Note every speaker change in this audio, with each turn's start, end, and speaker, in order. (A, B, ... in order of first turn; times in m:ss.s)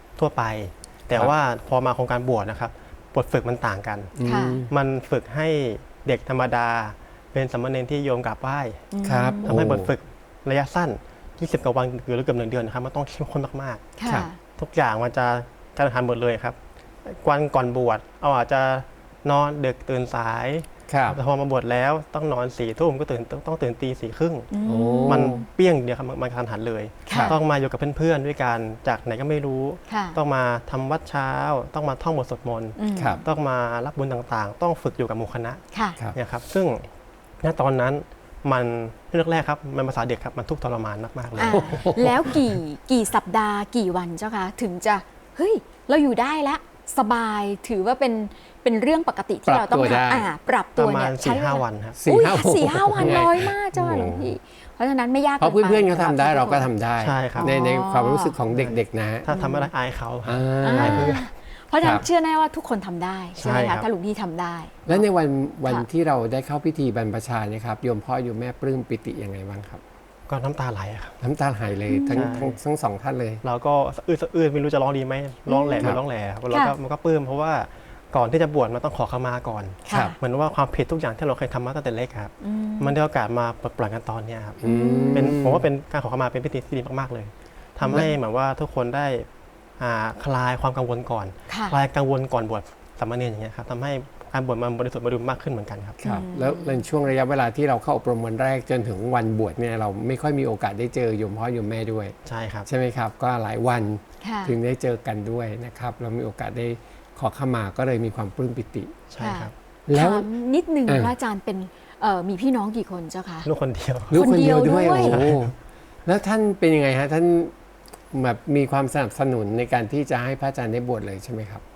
0:00.2-0:04.2 A
0:04.1-0:04.7 B
0:04.2-0:04.6 C
0:04.7-0:08.9 A
0:08.9-0:09.5 C
0:09.0-0:09.9 B
0:09.4-0:13.8 A
0:14.0-0:14.4 C
0:14.6-0:24.5 A
0:20.9-0:21.2 B
0:24.5-0:25.5 C
0:24.6-0:25.4 B
0:25.1-0:35.6 A
0:27.0-0:27.4 C
0:27.1-0:27.4 B
0:29.9-0:30.2 C
0:32.8-0:33.2 C
0:33.0-0:33.2 B
0:35.7-0:36.0 C
0:36.1-0:36.9 A
0:37.4-0:41.9 A
0:41.4-0:42.6 B
0:41.4-0:56.7 C
0:49.5-0:50.3 B
0:50.8-0:52.0 A
0:52.0-0:54.3 B
0:55.4-0:59.3 B
0:57.0-0:57.5 A
0:57.4-0:58.4 C
0:59.2-1:01.2 A
0:59.3-0:59.7 C
1:00.2-1:01.2 B
1:00.6-1:05.0 C
1:03.3-1:03.9 A
1:04.8-1:09.8 B
1:10.3-1:11.2 A
1:11.2-1:13.4 B
1:11.9-1:12.3 C
1:12.1-1:12.6 A
1:13.4-1:24.6 A
1:15.5-1:15.9 C
1:16.5-1:16.8 C
1:19.8-1:20.1 C
1:22.4-1:22.9 C
1:24.6-1:25.6 B
1:24.6-1:25.4 C
1:25.1-1:29.3 A
1:27.8-1:28.1 C
1:29.8-1:36.0 A
1:31.5-1:31.7 C
1:36.0-1:42.1 B
1:36.0-1:36.8 C
1:42.2-1:42.7 A
1:42.6-1:49.0 B
1:44.2-1:44.5 C
1:49.1-1:49.5 A
1:49.2-1:53.5 C
1:49.9-1:50.3 B
1:50.9-1:51.1 B
1:53.4-1:55.5 A
1:54.1-1:57.5 B
1:54.1-1:55.2 C
1:58.1-2:01.6 B